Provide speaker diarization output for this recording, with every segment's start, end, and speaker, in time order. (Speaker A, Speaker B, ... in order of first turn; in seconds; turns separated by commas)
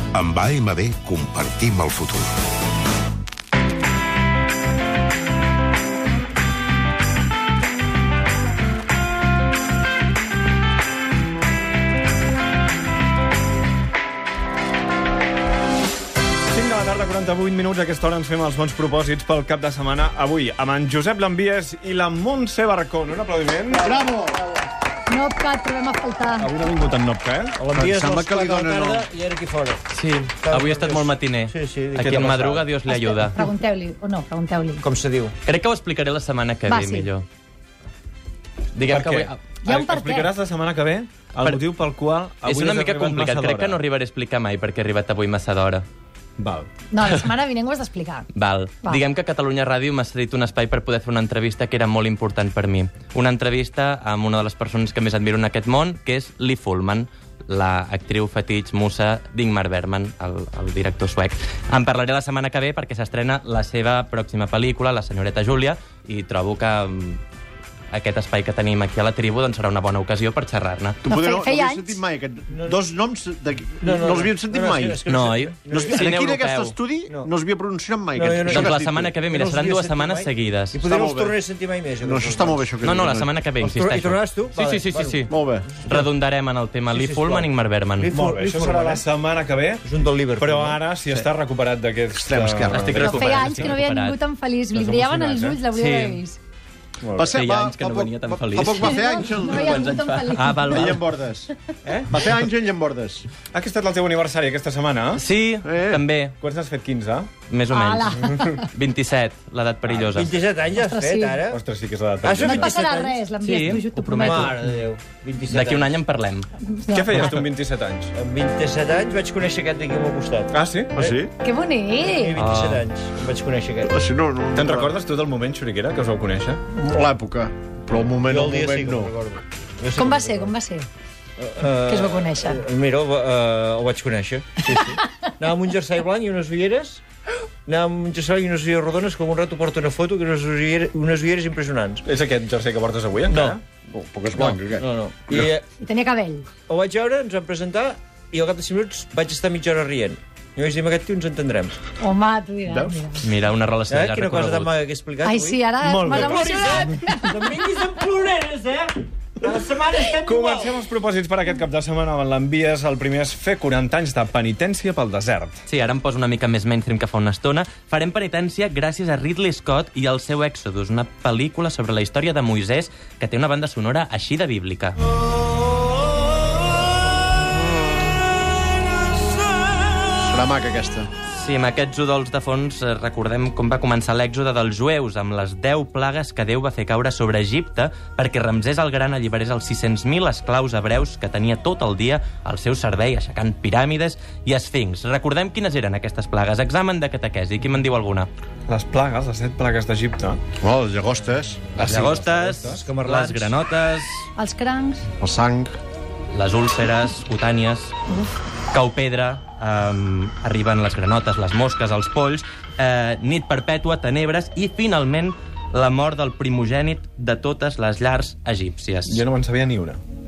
Speaker A: 0.1-2.3, Speaker B: 16.5-24.0, Speaker C: 23.8-24.5, Speaker D: 25.1-26.5, Speaker B: 26.4-27.6, Speaker E: 27.6-29.8, Speaker C: 27.7-29.1, Speaker F: 29.9-33.4, Speaker E: 30.4-32.7, Speaker D: 32.9-34.9, Speaker E: 34.8-35.4, Speaker F: 35.5-37.2, Speaker D: 36.7-37.1, Speaker F: 38.7-39.4, Speaker B: 38.8-43.8, Speaker D: 39.6-40.3, Speaker F: 42.4-45.8, Speaker B: 46.4-46.7, Speaker D: 46.9-48.3, Speaker F: 48.3-67.2, Speaker F: 67.9-71.0, Speaker C: 71.0-75.0, Speaker D: 71.1-72.0, Speaker E: 72.5-72.8, Speaker E: 73.8-76.0, Speaker F: 75.1-76.8, Speaker C: 75.7-79.2, Speaker E: 77.0-77.3, Speaker E: 78.1-82.8, Speaker F: 78.4-80.8, Speaker C: 80.8-81.4, Speaker C: 82.0-83.5, Speaker F: 82.8-85.3, Speaker E: 83.5-86.1, Speaker C: 85.3-85.7, Speaker F: 85.8-88.2, Speaker E: 86.9-89.0, Speaker B: 88.1-89.8, Speaker E: 89.8-90.8, Speaker B: 90.4-93.7, Speaker C: 92.1-93.2, Speaker F: 92.7-94.2, Speaker D: 93.0-96.4, Speaker B: 94.7-95.6, Speaker F: 95.7-96.2, Speaker B: 97.0-97.3, Speaker C: 97.2-101.5, Speaker F: 97.3-101.0, Speaker D: 98.7-100.9, Speaker C: 102.1-103.3, Speaker B: 103.5-105.2, Speaker F: 105.2-106.3, Speaker C: 105.6-106.0, Speaker B: 106.4-107.3, Speaker F: 107.5-110.3, Speaker D: 107.7-108.6, Speaker B: 108.1-108.5, Speaker B: 109.8-110.3, Speaker E: 110.1-111.6, Speaker D: 110.8-111.4, Speaker B: 111.5-112.8, Speaker E: 112.2-113.2, Speaker D: 112.4-114.5, Speaker F: 113.4-114.6, Speaker E: 114.1-115.9, Speaker F: 115.5-116.5, Speaker D: 116.7-117.3, Speaker B: 116.9-118.1, Speaker E: 118.1-121.2, Speaker B: 120.5-121.0, Speaker C: 121.0-121.3, Speaker D: 121.4-122.4, Speaker E: 122.0-123.9, Speaker F: 122.3-122.8, Speaker C: 123.9-124.9, Speaker B: 124.5-126.6, Speaker C: 126.7-129.1, Speaker E: 128.2-130.5, Speaker D: 129.9-130.9, Speaker E: 131.4-137.0, Speaker D: 131.8-132.6, Speaker E: 137.7-142.0, Speaker B: 142.0-143.6, Speaker E: 143.3-143.6, Speaker C: 143.9-145.4, Speaker E: 144.3-145.7, Speaker D: 145.8-146.5, Speaker E: 146.7-151.8, Speaker D: 152.0-153.2, Speaker C: 152.7-152.9, Speaker F: 153.2-154.7, Speaker E: 153.9-155.6, Speaker D: 155.2-157.4, Speaker B: 155.8-156.8, Speaker E: 156.1-160.7, Speaker B: 160.2-165.6, Speaker F: 165.7-175.0, Speaker C: 180.2-181.1, Speaker F: 181.3-198.3, Speaker B: 198.7-200.4, Speaker C: 200.6-202.1, Speaker B: 201.8-202.8, Speaker F: 201.8-204.3, Speaker E: 202.7-203.5, Speaker D: 204.4-205.0, Speaker C: 205.2-205.7, Speaker F: 206.3-207.9, Speaker F: 208.7-219.2, Speaker B: 219.1-220.0